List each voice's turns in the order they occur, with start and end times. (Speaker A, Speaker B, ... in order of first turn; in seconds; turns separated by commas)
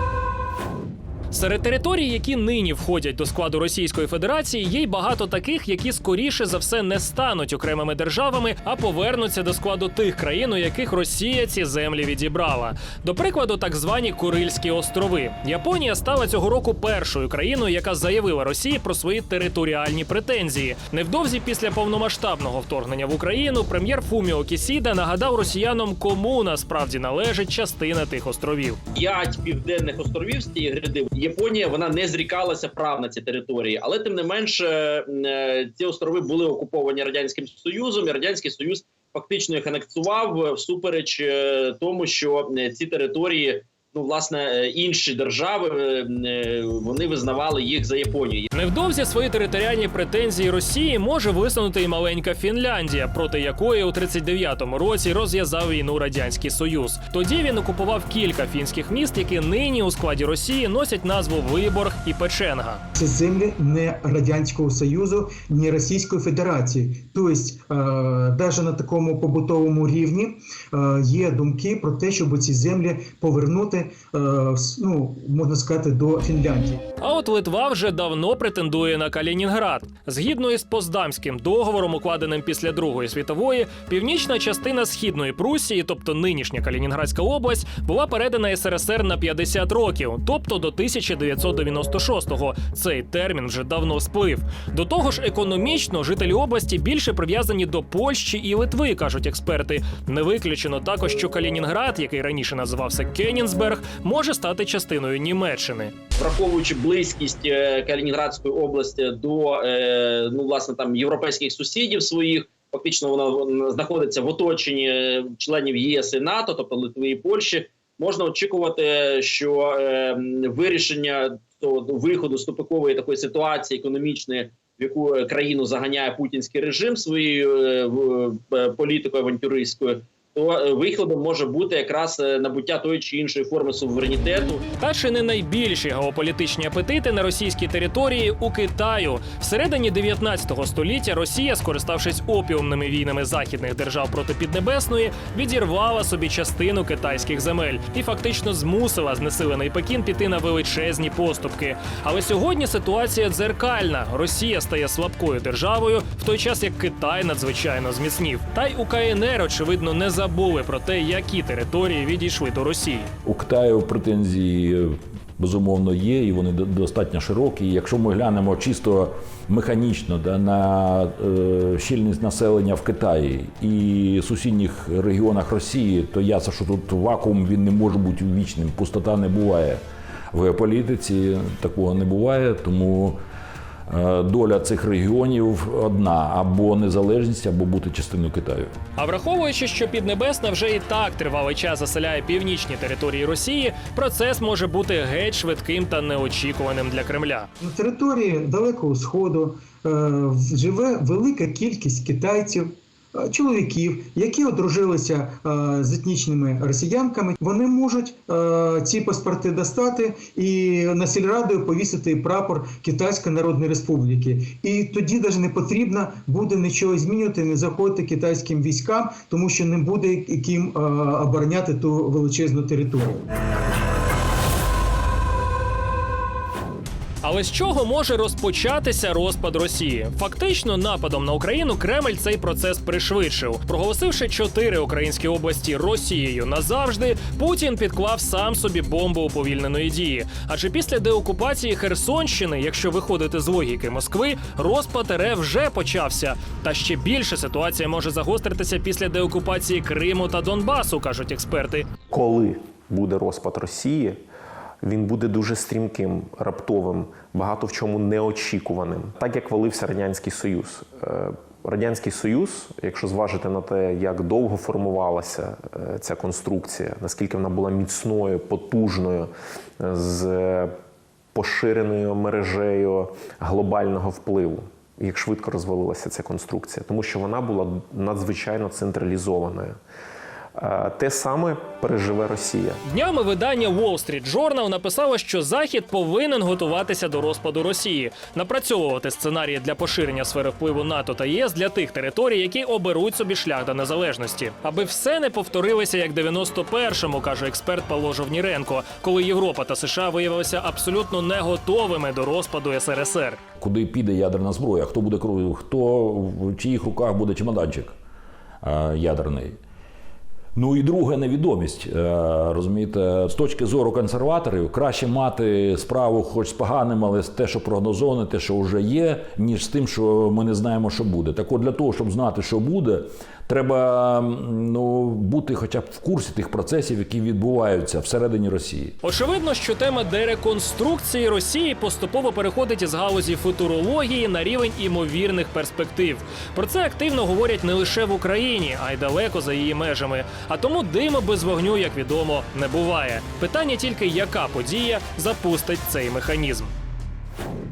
Speaker A: 1.3-28.8, Speaker B: 28.9-48.5, Speaker A: 48.5-62.8, Speaker C: 63.0-76.8, Speaker A: 77.0-105.9, Speaker B: 106.2-134.6, Speaker A: 134.8-163.1, Speaker D: 163.2-179.8, Speaker D: 180.3-183.2, Speaker D: 183.9-188.7, Speaker A: 189.0-197.5, Speaker C: 197.6-223.2, Speaker A: 227.2-251.9, Speaker E: 252.1-254.2, Speaker E: 254.8-270.7, Speaker E: 271.3-279.8, Speaker E: 280.6-282.8, Speaker A: 282.9-303.4, Speaker D: 303.6-307.9, Speaker D: 308.6-309.6, Speaker D: 310.6-328.9, Speaker A: 329.0-346.7